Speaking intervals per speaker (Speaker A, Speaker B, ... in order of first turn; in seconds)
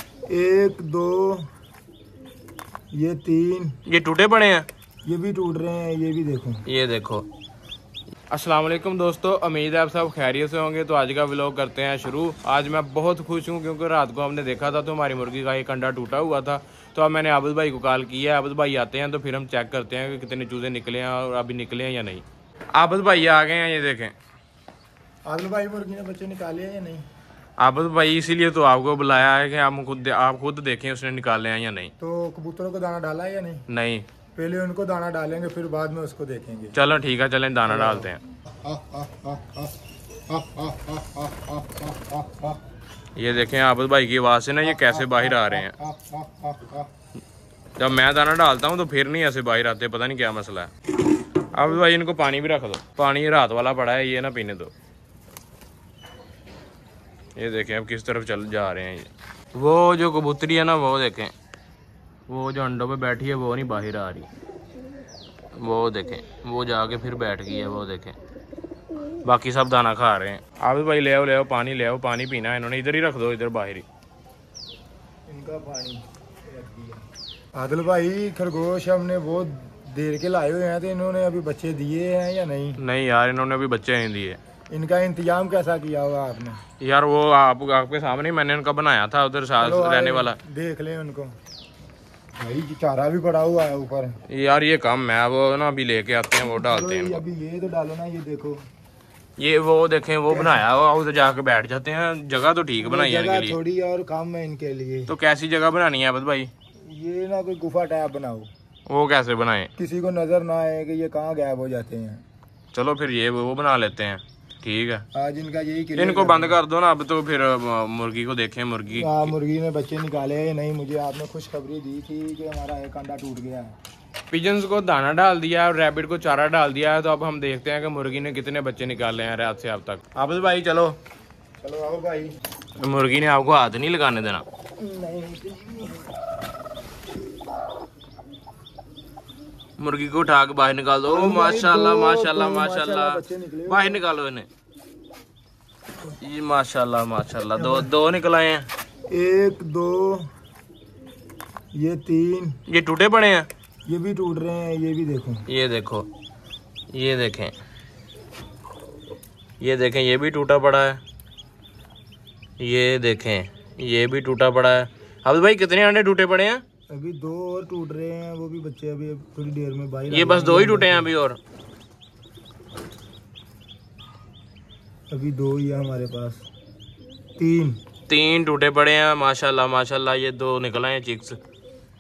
Speaker A: 0.3-1.5, 2.9-3.8, 5.1-6.6, 25.3-27.1, 32.0-33.6, 34.4-36.8, 37.7-39.7, 40.3-42.6, 44.7-46.9, 75.3-77.0, 77.5-82.8, 84.7-86.6, 89.6-91.3, 92.4-94.2, 96.5-98.6, 102.8-105.1, 106.9-108.5, 109.8-112.2, 115.2-116.6, 118.9-123.8, 131.6-132.3, 134.8-136.2, 141.1-144.1, 147.6-147.9, 149.1-150.3, 151.8-152.6, 153.9-155.4, 166.9-171.1, 175.1-176.5, 177.4-177.8
Speaker B: 3.9-4.7, 6.7-7.2, 8.3-24.1, 27.6-31.9, 33.7-34.0, 36.7-38.2, 43.2-45.7, 47.8-50.7, 51.5-54.7, 57.4-61.3, 62.3-64.3, 65.5-68.2, 69.2-73.8, 82.8-84.4, 86.8-90.4, 94.3-97.2, 99.4-103.6, 105.1-106.5, 108.9-109.7, 112.7-115.0, 116.0-119.3, 124.3-131.0, 132.8-134.4, 139.8-144.5, 146.2-148.7, 152.7-153.5, 155.5-156.1, 156.9-157.5, 159.6-161.0, 162.6-166.6, 170.1-171.4, 178.1-181.4